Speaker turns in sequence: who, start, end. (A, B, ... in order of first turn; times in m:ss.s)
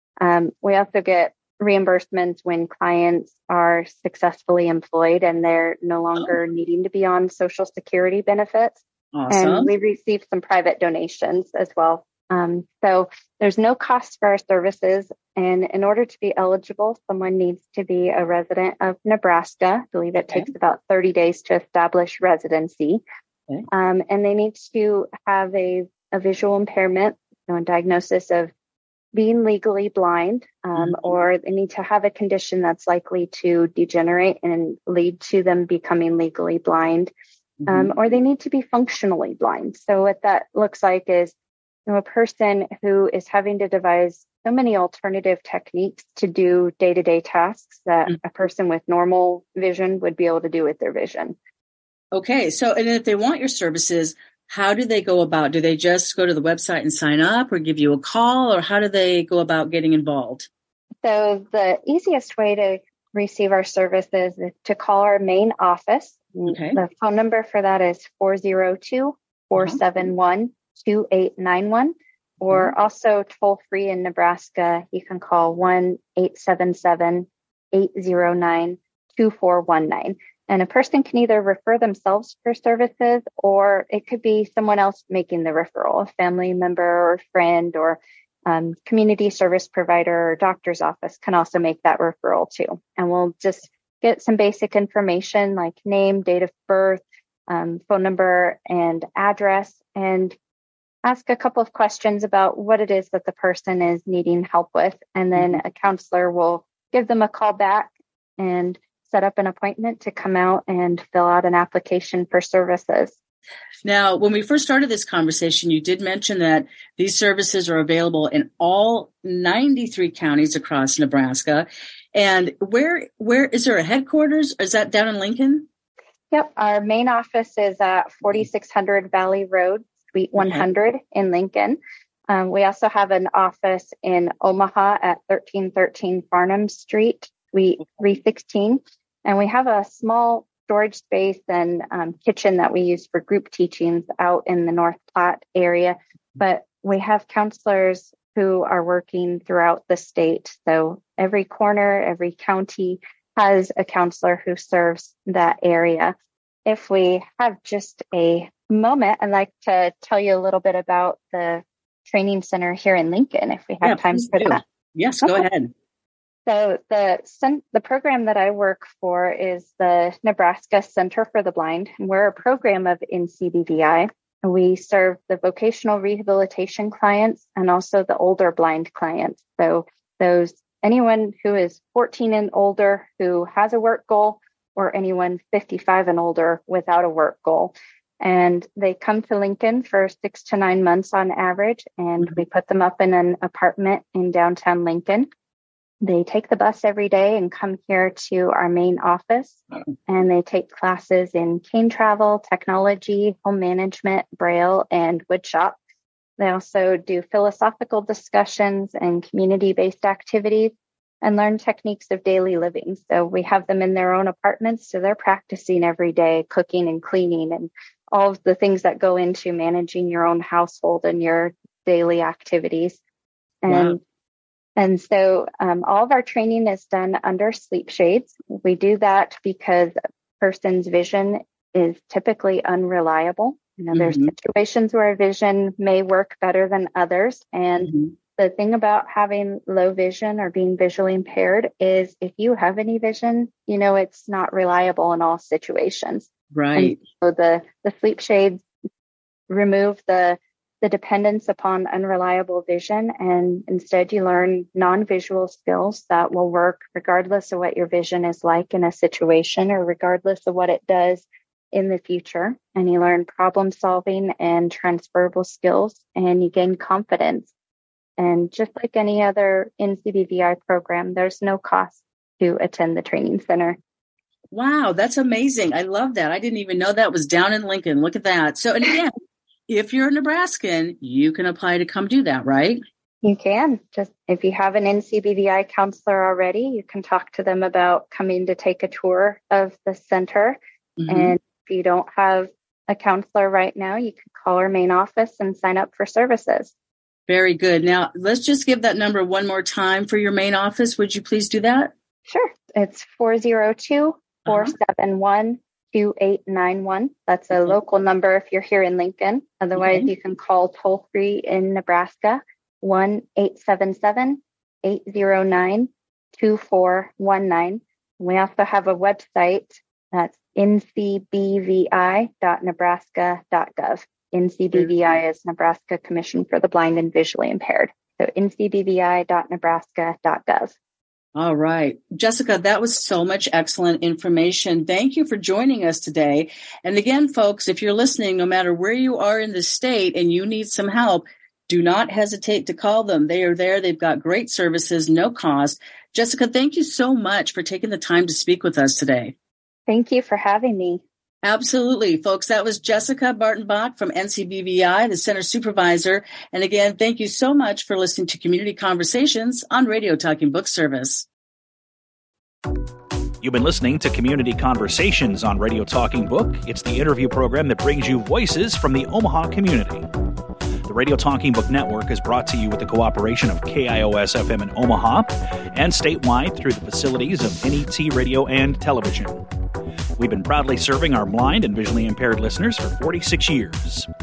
0:00.2-0:08.8 A
0:09.1-0:09.7 B
0:09.3-0:23.0 A
0:23.7-0:28.5 A
0:29.1-0:37.1 A
0:37.6-0:37.9 B
0:37.7-0:41.3 A
0:41.9-0:51.4 A
0:52.1-1:00.5 B
1:01.0-1:40.4 A
1:06.5-1:06.8 B
1:41.0-1:53.2 A
1:53.8-2:05.7 B
2:06.3-2:36.1 A
2:10.4-2:10.6 B
2:36.6-2:44.6 A
2:43.8-2:45.7 B
2:46.4-3:15.3 A
3:16.0-3:25.8 A
3:26.4-3:43.0 A
3:43.6-3:44.0 A
3:43.7-3:44.0 B
3:44.8-4:08.6 A
3:53.9-3:54.3 B
4:06.5-4:07.0 B
4:09.5-4:27.5 A
4:28.2-4:33.8 A
4:34.5-4:39.1 B
4:39.7-4:42.8 B
4:43.2-4:50.6 A
4:51.0-4:51.3 B
4:51.1-4:56.7 A
4:57.3-5:01.9 B
5:02.3-5:30.7 A
5:04.5-5:04.7 B
5:09.8-5:10.1 B
5:31.3-5:49.3 B
5:49.9-5:51.0 A
5:51.4-6:01.3 B
6:03.4-6:10.1 C
6:10.8-6:19.4 C
6:20.2-6:24.1 C